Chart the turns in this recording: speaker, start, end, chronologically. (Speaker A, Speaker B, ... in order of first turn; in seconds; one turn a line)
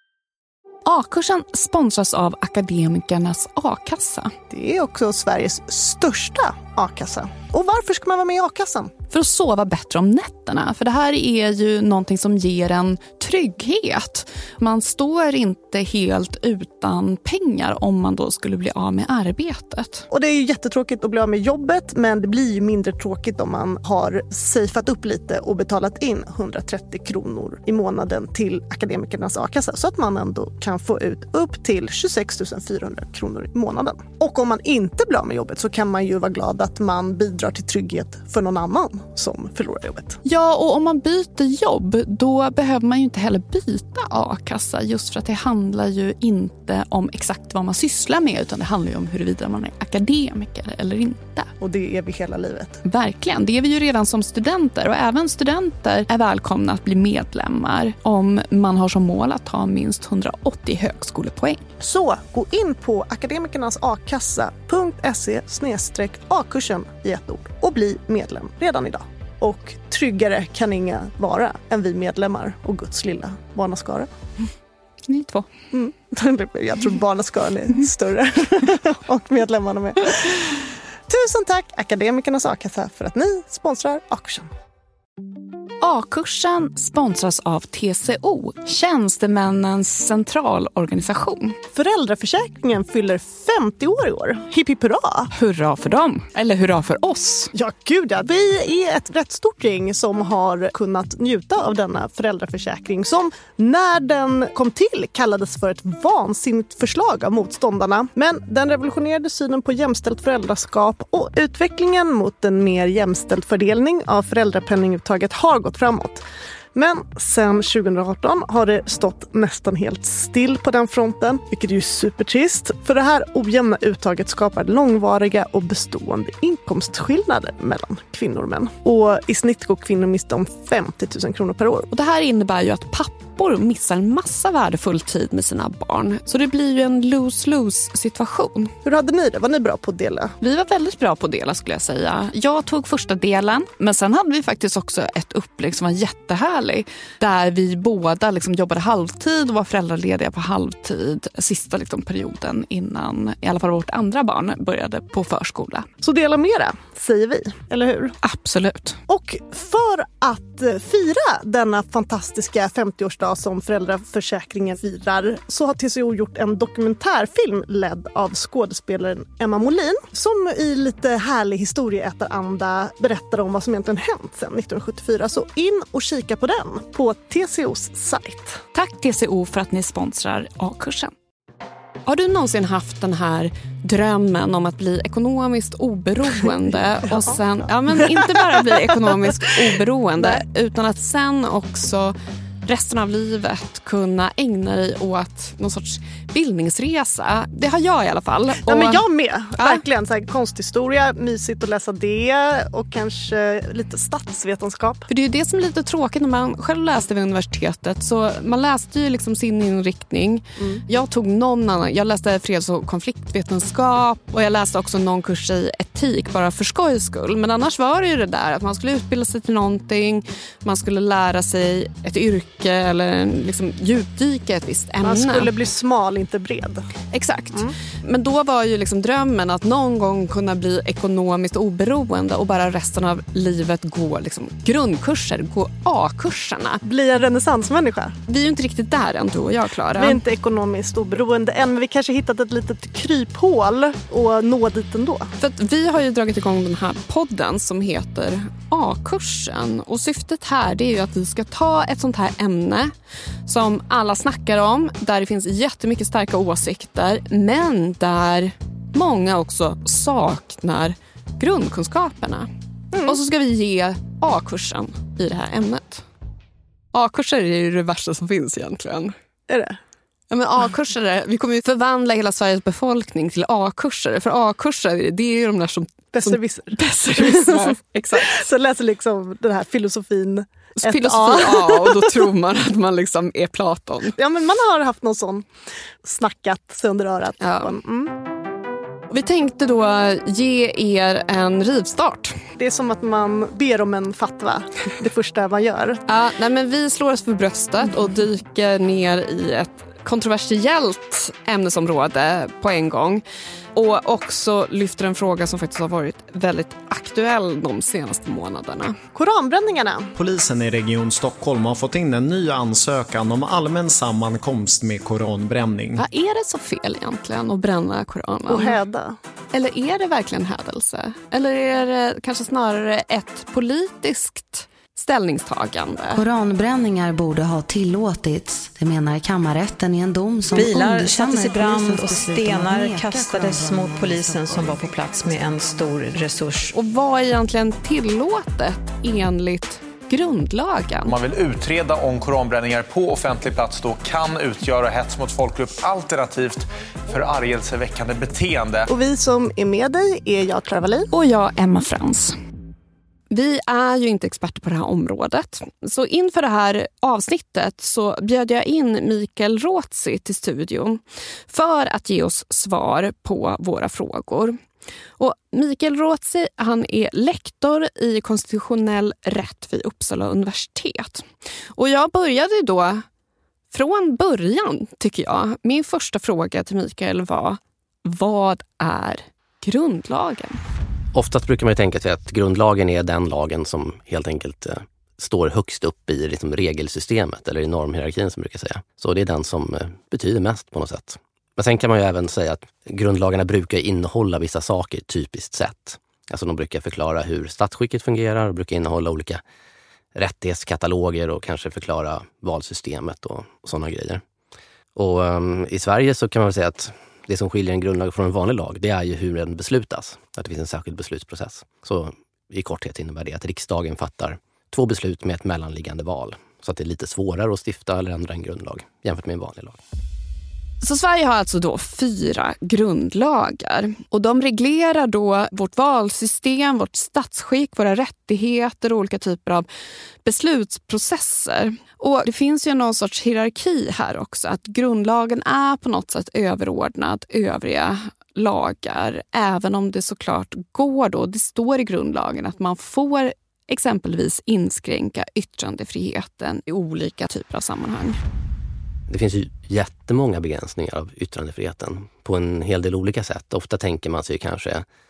Speaker A: 0.9-4.3
Speaker B: 4.5-8.9
Speaker A: 9.1-20.1
Speaker B: 20.1-40.2
Speaker A: 40.2-51.5
Speaker B: 51.6-52.8
Speaker A: 52.9-61.6
Speaker B: 61.8-74.1
Speaker A: 75.1-75.5
Speaker B: 75.7-84.5
Speaker A: 85.8-91.6
Speaker B: 91.7-95.3
Speaker A: 95.3-97.5
Speaker B: 97.5-116.2
Speaker B: 116.8-131.9
Speaker A: 131.9-138.7
Speaker B: 138.8-140.3
Speaker A: 140.4-155.9
Speaker B: 156.0-158.2
Speaker A: 158.2-159.0
Speaker B: 159.1-178.6
Speaker A: 178.7-181.1
Speaker A: 182.1-199.0
Speaker B: 188.2-188.8
Speaker B: 198.7-205.1
Speaker A: 205.1-225.5
Speaker B: 210.6-210.8
Speaker B: 225.0-226.9
Speaker A: 227.1-236.8
Speaker B: 236.8-238.2
Speaker A: 238.3-240.2
Speaker B: 240.0-245.3
Speaker A: 245.4-252.9
Speaker A: 253.5-262.5
Speaker B: 262.9-263.2
Speaker A: 263.0-266.1
Speaker A: 266.9-269.1
Speaker B: 269.5-269.8
Speaker A: 270.3-278.5
Speaker B: 276.1-282.2
Speaker A: 280.8-284.1
Speaker B: 284.2-285.5
Speaker B: 286.0-288.1
Speaker A: 287.4-287.8
Speaker A: 289.1-292.4
Speaker B: 292.6-296.0
Speaker A: 296.1-303.2
Speaker A: 303.7-309.0
Speaker B: 309.1-310.1
Speaker C: 310.1-316.0
Speaker A: 316.0-318.8
Speaker B: 318.5-319.2
Speaker A: 319.5-326.2
Speaker D: 326.1-334.9
Speaker E: 330.5-336.7
Speaker A: 336.7-341.1
Speaker F: 341.1-348.9
Speaker B: 348.9-351.1
Speaker A: 351.1-352.4
Speaker A: 353.3-364.6
Speaker A: 365.2-373.1
Speaker A: 373.7-380.6
Speaker G: 381.1-399.4
Speaker G: 400.1-404.2
Speaker G: 404.9-419.8
Speaker A: 420.8-429.7
Speaker A: 430.2-448.2
Speaker G: 449.1-454.9